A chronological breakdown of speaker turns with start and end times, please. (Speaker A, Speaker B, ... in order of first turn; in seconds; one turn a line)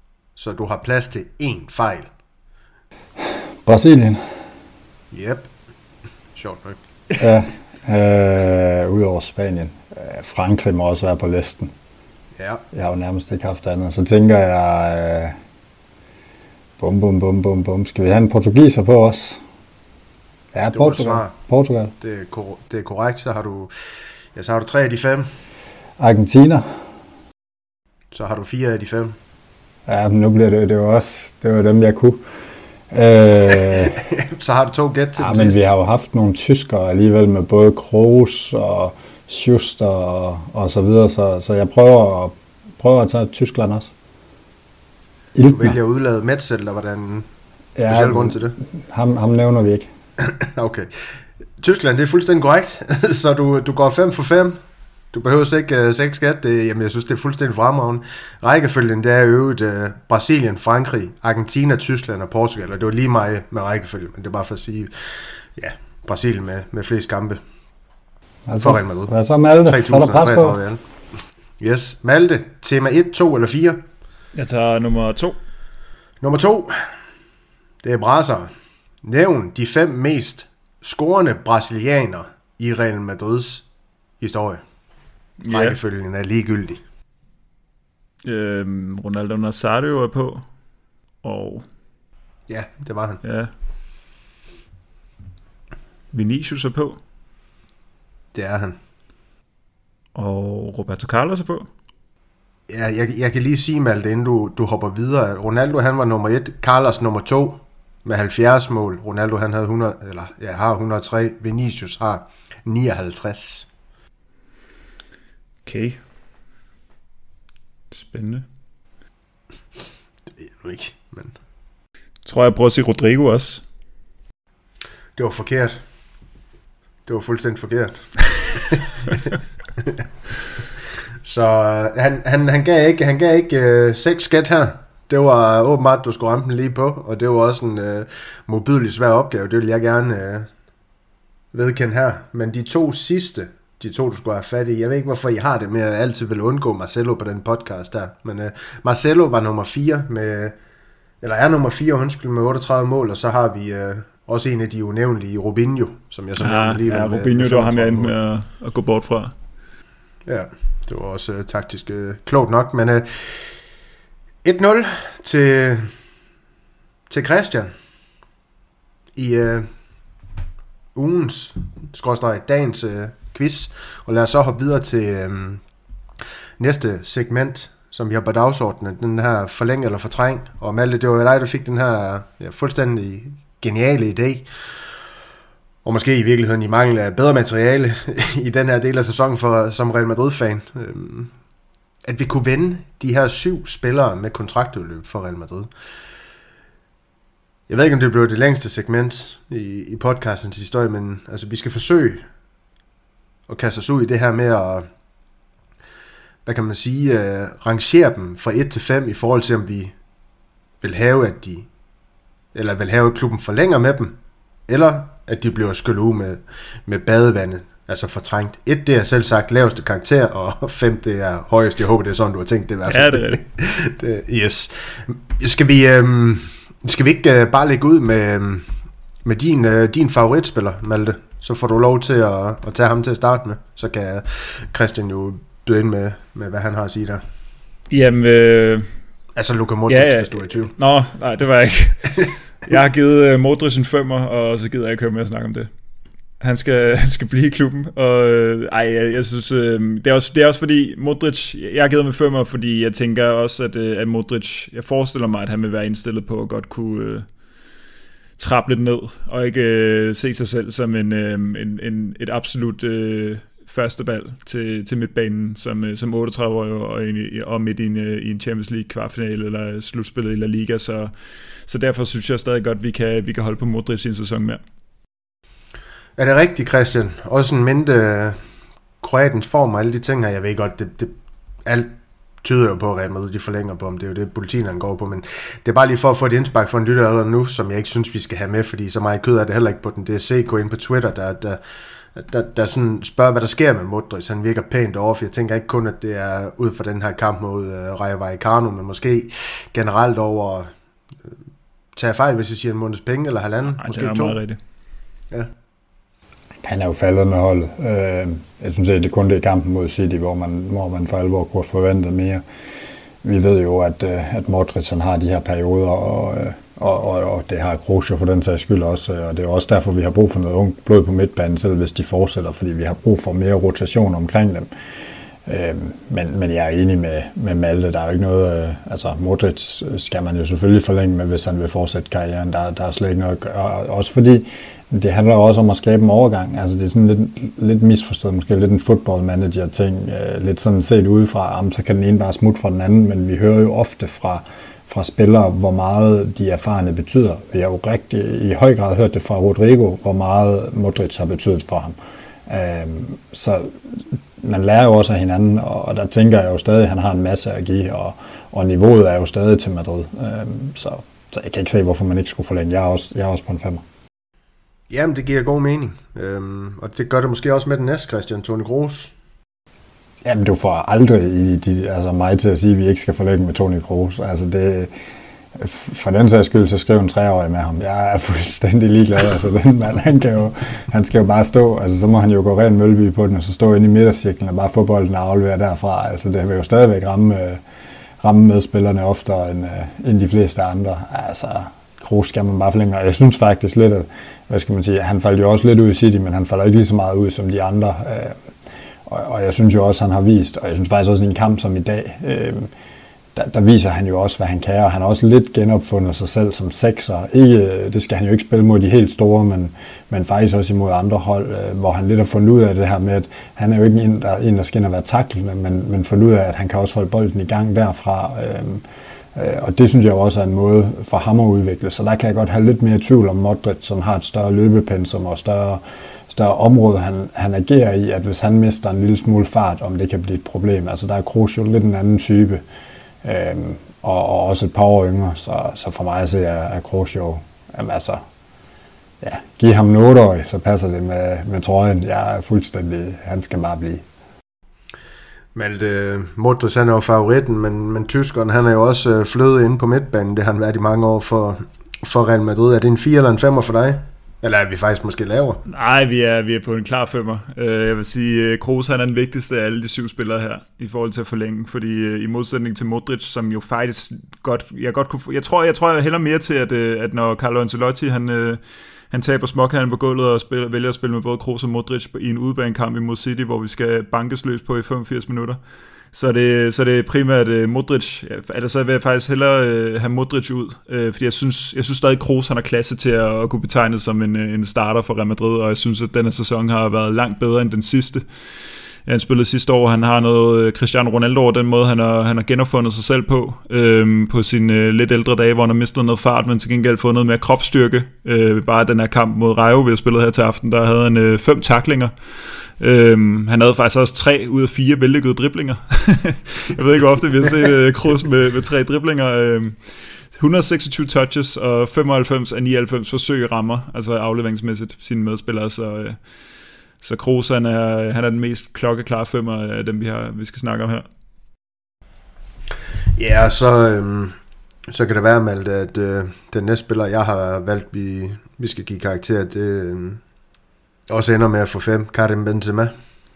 Speaker A: 0.4-2.1
Speaker B: 3.2-4.3
Speaker A: 5.1-5.5
Speaker A: 6.3-6.8
Speaker B: 7.2-11.7
Speaker A: 12.4-12.6
Speaker B: 12.7-15.4
Speaker B: 16.8-19.4
Speaker B: 20.5-21.9
Speaker A: 20.7-21.3
Speaker A: 22.0-23.7
Speaker A: 24.3-25.3
Speaker B: 26.0-26.7
Speaker A: 28.1-29.1
Speaker B: 29.9-32.2
Speaker B: 32.9-34.0
Speaker A: 33.7-35.7
Speaker B: 35.2-43.9
Speaker B: 45.4-45.8
Speaker A: 45.5-47.3
Speaker B: 47.8-49.9
Speaker A: 47.9-48.6
Speaker A: 50.2-50.9
Speaker A: 51.6-54.6
Speaker A: 55.1-67.4
Speaker B: 68.5-70.6
Speaker A: 68.6-69.1
Speaker A: 69.7-70.8
Speaker A: 71.6-73.8
Speaker C: 74.3-75.4
Speaker A: 76.2-76.8
Speaker A: 77.8-78.5
Speaker A: 79.0-83.7
Speaker A: 84.2-84.6
Speaker C: 85.4-85.8
Speaker A: 85.5-86.8
Speaker C: 88.2-90.5
Speaker C: 91.2-91.7
Speaker A: 92.5-93.2
Speaker C: 93.2-93.5
Speaker C: 96.1-97.0
Speaker A: 98.3-98.8
Speaker C: 100.2-101.7
Speaker A: 102.7-113.7
Speaker C: 115.7-116.0
Speaker C: 117.9-118.5
Speaker A: 120.4-121.3
Speaker C: 122.2-123.6
Speaker A: 125.2-125.8
Speaker A: 127.1-130.0
Speaker A: 131.2-140.5
Speaker A: 141.5-150.6
Speaker A: 151.2-158.1
Speaker C: 156.4-159.3
Speaker A: 160.3-163.4
Speaker A: 164.4-165.9
Speaker A: 167.1-167.7
Speaker A: 169.2-169.7
Speaker A: 170.9-175.6
Speaker A: 176.6-184.5
Speaker A: 185.8-191.3
Speaker A: 192.1-195.7
Speaker A: 197.7-202.2
Speaker A: 203.5-204.9
Speaker A: 206.4-209.9
Speaker A: 210.8-211.7
Speaker A: 212.5-214.2
Speaker A: 214.7-228.7
Speaker C: 222.9-223.4
Speaker A: 229.2-237.2
Speaker C: 237.9-238.9
Speaker A: 239.3-240.7
Speaker C: 239.9-242.2
Speaker C: 242.7-245.7
Speaker C: 246.4-257.3
Speaker C: 258.4-271.1
Speaker C: 271.7-274.6
Speaker A: 276.2-278.4
Speaker A: 279.0-291.6
Speaker A: 292.1-300.7
Speaker A: 301.9-304.4
Speaker C: 303.8-304.6
Speaker B: 306.6-312.4
Speaker B: 313.2-324.7
Speaker B: 325.5-351.9
Speaker B: 352.5-363.8
Speaker A: 364.9-369.1
Speaker B: 370.2-374.9
Speaker B: 375.6-387.6
Speaker B: 388.2-398.4
Speaker B: 399.1-402.7
Speaker B: 403.4-418.8
Speaker B: 419.4-432.6
Speaker B: 433.2-438.2
Speaker B: 439.2-444.0
Speaker A: 445.6-455.6
Speaker C: 455.7-475.6
Speaker C: 476.1-488.2
Speaker C: 489.1-502.1
Speaker C: 502.7-516.2
Speaker C: 517.0-521.1
Speaker A: 523.2-524.4
Speaker A: 524.9-530.2
Speaker A: 531.1-532.9